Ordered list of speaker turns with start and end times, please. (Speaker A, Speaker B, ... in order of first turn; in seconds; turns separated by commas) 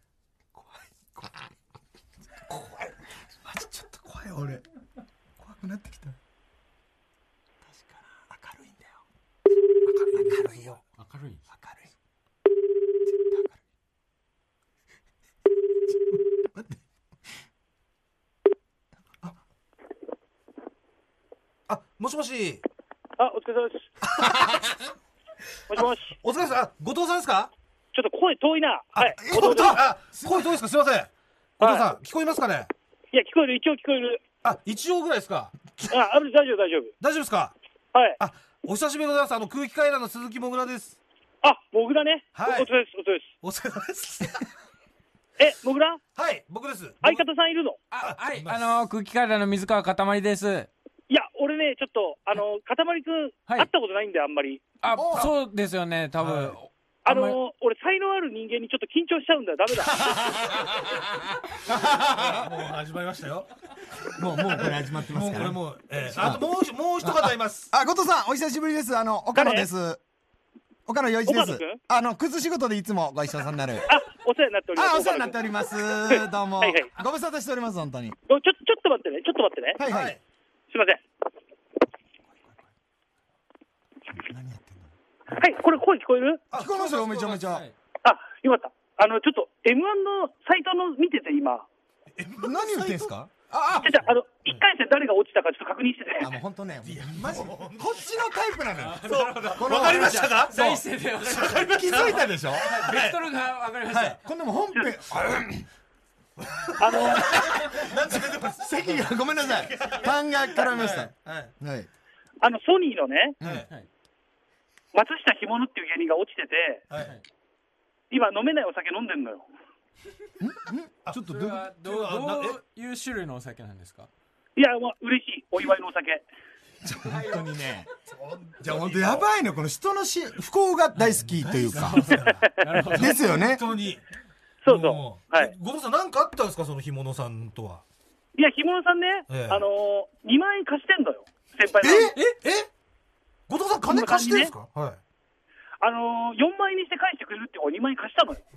Speaker A: 0.5-1.3, Speaker A: 2.5-4.6, Speaker A: 5.4-6.2, Speaker A: 8.1-9.0, Speaker B: 9.9-10.8, Speaker A: 10.1-10.8, Speaker C: 10.9-11.4, Speaker A: 11.5-11.9, Speaker A: 13.1-13.6, Speaker A: 16.4-16.7, Speaker B: 21.7-22.6, Speaker D: 23.2-23.9, Speaker B: 24.1-24.6, Speaker A: 24.4-24.7, Speaker D: 25.7-26.1, Speaker B: 26.2-27.5, Speaker D: 27.9-29.8, Speaker A: 28.9-30.5, Speaker B: 29.3-32.7, Speaker D: 31.6-31.9, Speaker D: 33.1-34.2, Speaker B: 34.4-35.6, Speaker D: 35.9-36.9, Speaker B: 37.0-37.5, Speaker B: 38.2-41.0, Speaker D: 41.4-43.3, Speaker B: 42.3-42.7, Speaker B: 43.4-44.5, Speaker D: 45.4-46.0, Speaker B: 46.1-47.2, Speaker D: 47.0-47.8, Speaker C: 47.9-50.7, Speaker B: 48.0-48.7, Speaker D: 51.1-54.6, Speaker C: 54.8-57.4, Speaker A: 54.9-55.3, Speaker B: 56.2-56.6, Speaker D: 57.0-60.4, Speaker A: 60.0-61.0, Speaker A: 61.5-62.5, Speaker B: 61.9-63.5, Speaker A: 64.1-66.4, Speaker B: 64.4-67.7, Speaker A: 67.0-70.0, Speaker D: 69.3-69.7, Speaker A: 70.8-73.9, Speaker D: 71.2-71.8, Speaker D: 73.9-75.4, Speaker A: 74.8-78.2, Speaker D: 76.1-76.9, Speaker D: 78.3-79.8, Speaker A: 79.8-80.2, Speaker B: 79.8-80.2, Speaker D: 80.7-81.0, Speaker A: 84.2-84.9, Speaker D: 85.3-86.4, Speaker B: 86.5-87.5, Speaker A: 86.5-87.6, Speaker C: 87.5-87.7, Speaker D: 88.0-91.7, Speaker B: 92.2-94.7, Speaker A: 92.4-93.3, Speaker C: 93.5-93.9, Speaker D: 93.8-96.3, Speaker A: 96.2-99.0, Speaker B: 96.8-98.0, Speaker C: 98.8-104.2, Speaker B: 99.0-103.2, Speaker A: 99.5-100.4, Speaker A: 101.5-102.8, Speaker B: 103.9-104.2, Speaker A: 104.2-105.7, Speaker B: 106.4-111.5, Speaker D: 106.8-107.5, Speaker A: 107.1-111.9, Speaker D: 112.4-113.4, Speaker A: 113.4-113.7, Speaker B: 113.4-113.7, Speaker D: 114.9-116.8, Speaker C: 116.9-117.2, Speaker D: 118.1-119.5, Speaker A: 120.4-121.6, Speaker B: 121.0-122.6, Speaker C: 121.2-124.1, Speaker D: 124.5-126.2, Speaker A: 126.8-127.9, Speaker C: 127.1-127.5, Speaker B: 128.1-129.3, Speaker A: 128.6-132.1, Speaker B: 130.9-134.0, Speaker C: 131.7-133.2, Speaker D: 132.3-132.9, Speaker A: 132.9-133.7, Speaker D: 134.6-135.5, Speaker B: 134.7-137.8, Speaker D: 138.3-142.2, Speaker B: 139.3-139.6, Speaker B: 141.8-142.7, Speaker B: 143.5-145.0, Speaker D: 143.9-144.5, Speaker D: 145.8-148.4